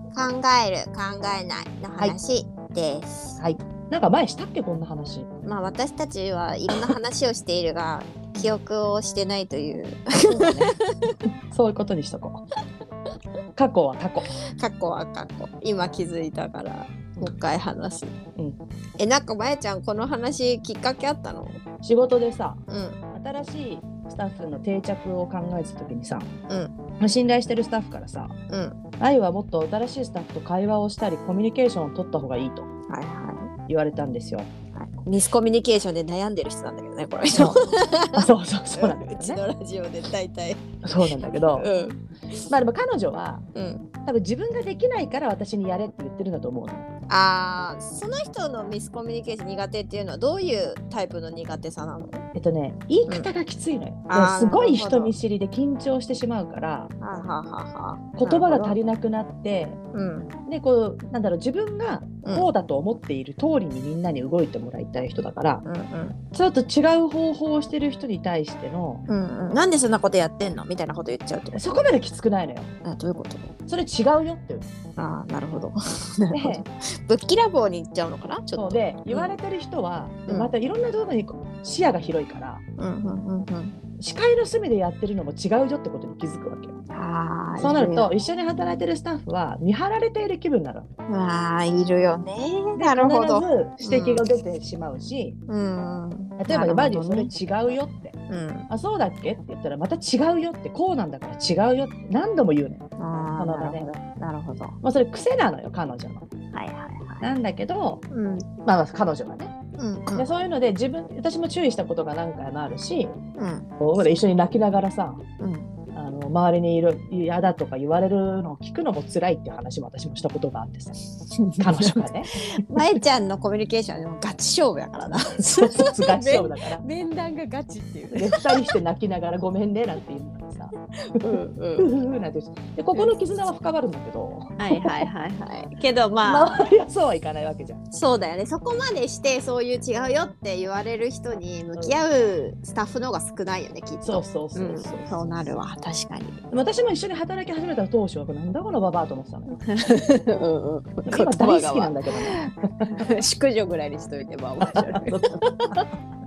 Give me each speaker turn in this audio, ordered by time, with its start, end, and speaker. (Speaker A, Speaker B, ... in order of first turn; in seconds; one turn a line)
Speaker A: 0.1-3.4
Speaker B: 3.4-5.3
Speaker A: 5.4-11.1
Speaker B: 10.3-10.7
Speaker B: 11.5-12.4
Speaker B: 13.6-14.3
Speaker A: 14.6-18.1
Speaker A: 19.0-21.6
Speaker B: 21.8-22.6
Speaker A: 22.7-23.0
Speaker B: 23.1-26.3
Speaker A: 26.5-26.7
Speaker B: 27.0-28.3
Speaker A: 28.5-28.8
Speaker B: 29.0-32.7
Speaker A: 32.9-33.5
Speaker B: 33.7-34.5
Speaker A: 34.7-42.5
Speaker B: 37.3-39.4
Speaker B: 40.8-41.7
Speaker B: 42.5-43.4
Speaker A: 43.5-43.8
Speaker B: 44.0-46.9
Speaker A: 47.1-52.2
Speaker B: 52.3-56.9
Speaker A: 54.1-55.1
Speaker A: 57.0-58.7
Speaker B: 58.2-59.8
Speaker A: 59.9-60.3
Speaker B: 60.5-65.6
Speaker A: 65.6-66.2
Speaker B: 66.3-69.0
Speaker A: 69.1-71.8
Speaker B: 71.5-72.7
Speaker A: 72.8-73.5
Speaker B: 73.7-74.7
Speaker A: 75.0-79.3
Speaker B: 76.3-76.6
Speaker B: 78.5-82.6
Speaker A: 80.3-80.5
Speaker A: 82.8-83.7
Speaker B: 84.0-86.7
Speaker A: 86.9-88.1
Speaker B: 87.6-90.9
Speaker A: 91.1-94.2
Speaker B: 92.8-95.4
Speaker A: 95.5-97.3
Speaker B: 96.4-98.2
Speaker A: 98.3-98.7
Speaker B: 98.7-102.8
Speaker A: 103.0-104.8
Speaker B: 103.4-103.9
Speaker B: 104.8-106.2
Speaker A: 106.5-107.3
Speaker B: 107.2-108.0
Speaker A: 108.1-108.5
Speaker B: 108.6-109.5
Speaker A: 109.8-110.3
Speaker B: 110.1-113.2
Speaker A: 113.4-113.7
Speaker B: 113.8-115.2
Speaker A: 115.4-115.7
Speaker B: 115.9-121.0
Speaker A: 121.3-128.7
Speaker B: 121.6-122.9
Speaker B: 125.3-126.8
Speaker B: 128.1-135.0
Speaker A: 131.2-131.9
Speaker A: 132.9-133.2
Speaker A: 134.6-136.5
Speaker B: 136.2-137.8
Speaker A: 137.9-146.4
Speaker B: 141.7-142.0
Speaker B: 144.0-145.5
Speaker B: 146.5-149.7
Speaker A: 149.6-155.2
Speaker B: 151.1-152.9
Speaker B: 154.7-155.9